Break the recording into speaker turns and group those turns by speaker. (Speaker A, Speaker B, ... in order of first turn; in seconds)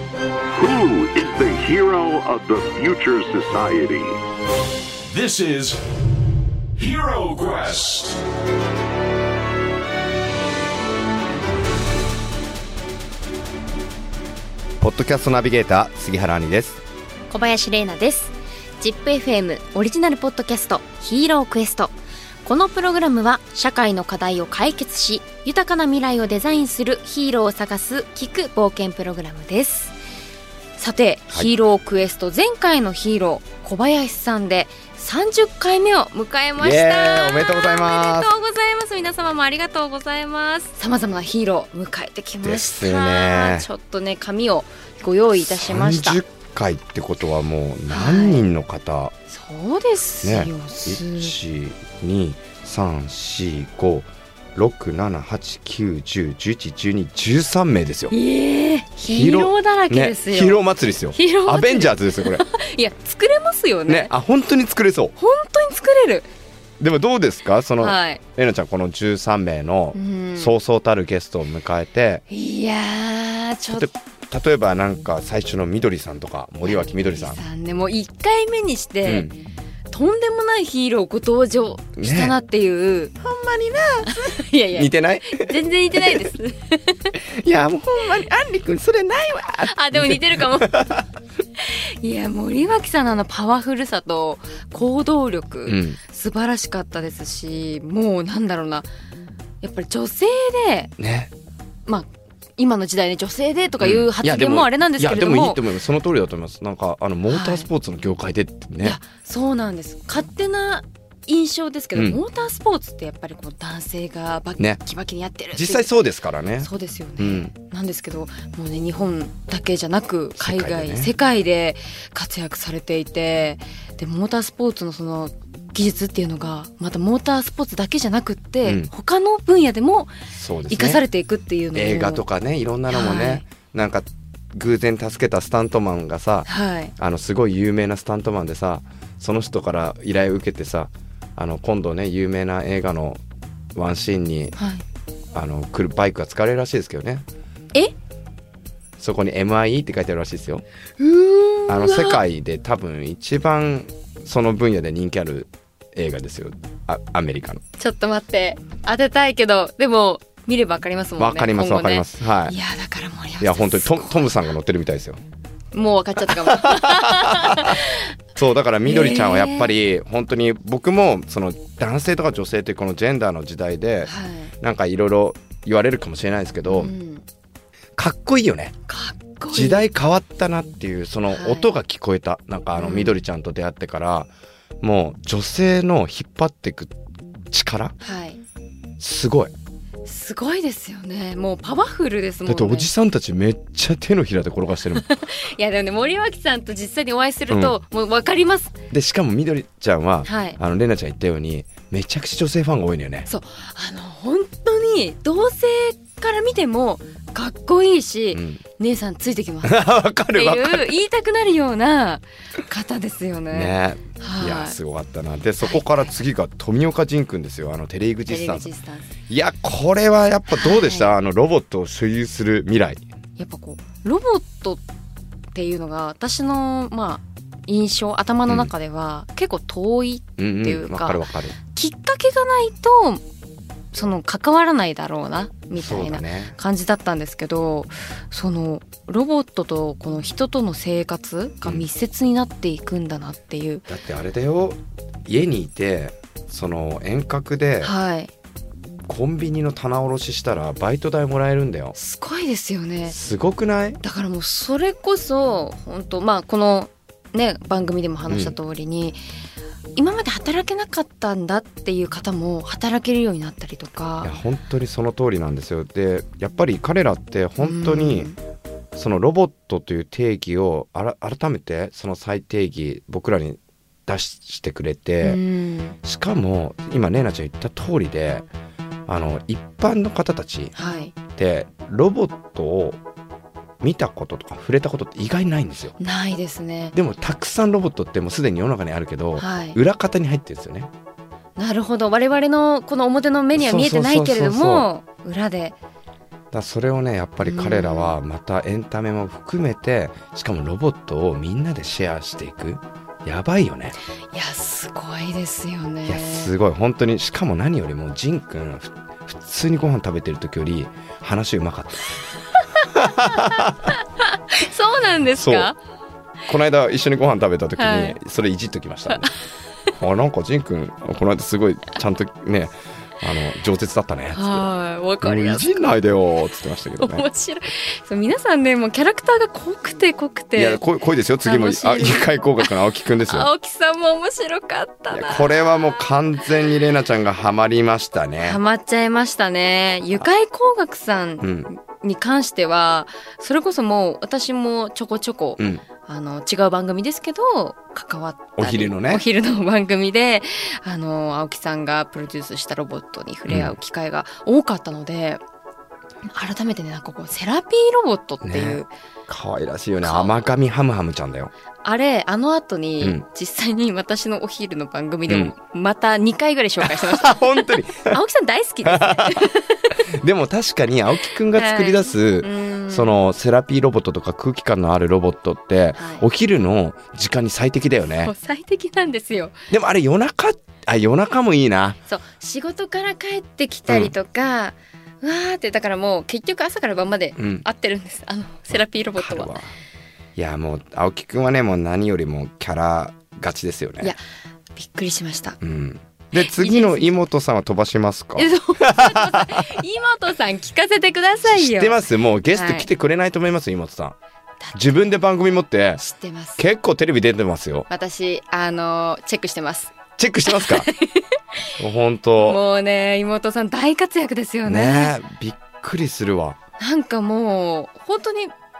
Speaker A: 0.5-4.2
Speaker B: 5.0-5.8, 6.8-8.2
Speaker C: 14.8-16.8, 36.6-38.3, 42.4-43.7, 45.4-49.1, 50.2-58.1, 59.0-62.4, 63.9-65.1, 66.8-72.2, 73.7-77.4, 79.0-79.3, 82.0-82.3, 83.2-86.2, 87.1-91.0, 95.7-96.0, 101.0-101.3, 103.8-109.0, 111.9-112.2, 115.5-117.5, 120.3-121.1, 128.6-128.9, 130.3-131.0, 131.7-143.2, 143.7-144.6, 145.3-147.2, 149.0-150.6, 151.7-157.6, 161.2-162.5, 163.4-165.2, 166.2-167.8, 168.3-176.9, 178.0-178.7, 179.5-184.3, 184.8-186.9, 187.5-187.9, 189.0-189.5, 192.4-195.1, 197.5-197.8, 198.9-203.3, 208.3-208.6, 209.6-210.9, 213.5-218.7, 219.3-223.0, 230.4-231.6, 235.7-236.5, 243.9-247.9, 249.1-251.9, 253.1-254.0, 258.3-258.5, 264.2-268.3, 268.9-275.4, 276.0-278.5, 279.1-280.7, 281.3-283.0, 283.8-285.9, 286.9-290.9, 293.6-294.9, 296.5-303.9, 306.1-312.1, 312.8-313.9, 315.4-315.7, 316.5-319.3, 319.9-324.7, 325.2-327.2, 330.5-333.5, 335.1-338.6, 341.4-341.7, 348.6-349.2, 353.5-353.8, 358.4-361.5, 365.3-365.5, 366.8-368.2, 368.8-369.4, 370.1-378.3, 379.7-382.0, 383.9-384.1, 387.4-387.6, 389.1-389.7, 390.4-394.1, 395.6-399.7, 401.4-404.2, 404.7-406.0, 406.6-407.9, 410.2-410.9, 411.8-412.6, 414.6-416.6
Speaker D: 17.3-29.9, 30.8-46.2, 47.9-48.4, 49.3-51.4, 58.1-60.6, 61.1-64.1, 65.2-66.3, 67.8-68.2, 69.9-70.6, 72.3-73.9, 76.6-79.3, 79.9-83.1, 84.0-87.1, 89.6-91.0, 91.6-98.9, 99.6-100.9, 101.8-105.6, 107.3-107.7, 108.8-115.9, 116.6-132.2, 132.9-133.4, 136.4-136.9, 144.6-144.8, 151.0-152.2, 157.8-164.5, 165.7-168.1, 168.8-169.7, 174.0-174.5, 176.7-177.2, 178.9-179.8, 181.3-181.7, 182.8-183.2, 188.0-188.4, 190.0-192.9, 194.9-198.7, 200.2-200.6, 203.3-214.8, 215.6-216.0, 218.3-219.1, 220.5-221.1, 223.4-224.8, 225.5-233.2, 233.9-243.9, 247.8-248.3, 251.9-253.2, 254.0-259.2, 259.9-264.3, 267.6-268.4, 275.2-276.0, 280.8-281.1, 286.0-286.9, 289.4-289.8, 291.6-295.8, 297.4-298.1, 304.3-306.5, 312.6-313.5, 314.2-315.8, 317.8-318.2, 324.3-325.8, 327.0-330.8, 331.4-332.7, 333.2-335.9, 338.4-355.4, 356.3-358.9, 360.0-360.4, 361.8-370.0, 371.5-373.1, 375.9-376.2, 378.2-379.6, 382.1-389.5, 394.7-395.6, 396.3-397.1, 398.4-402.9, 404.6-405.0, 406.0-406.6, 407.9-409.9, 410.4-411.2, 412.4-415.1, 416.8-418.5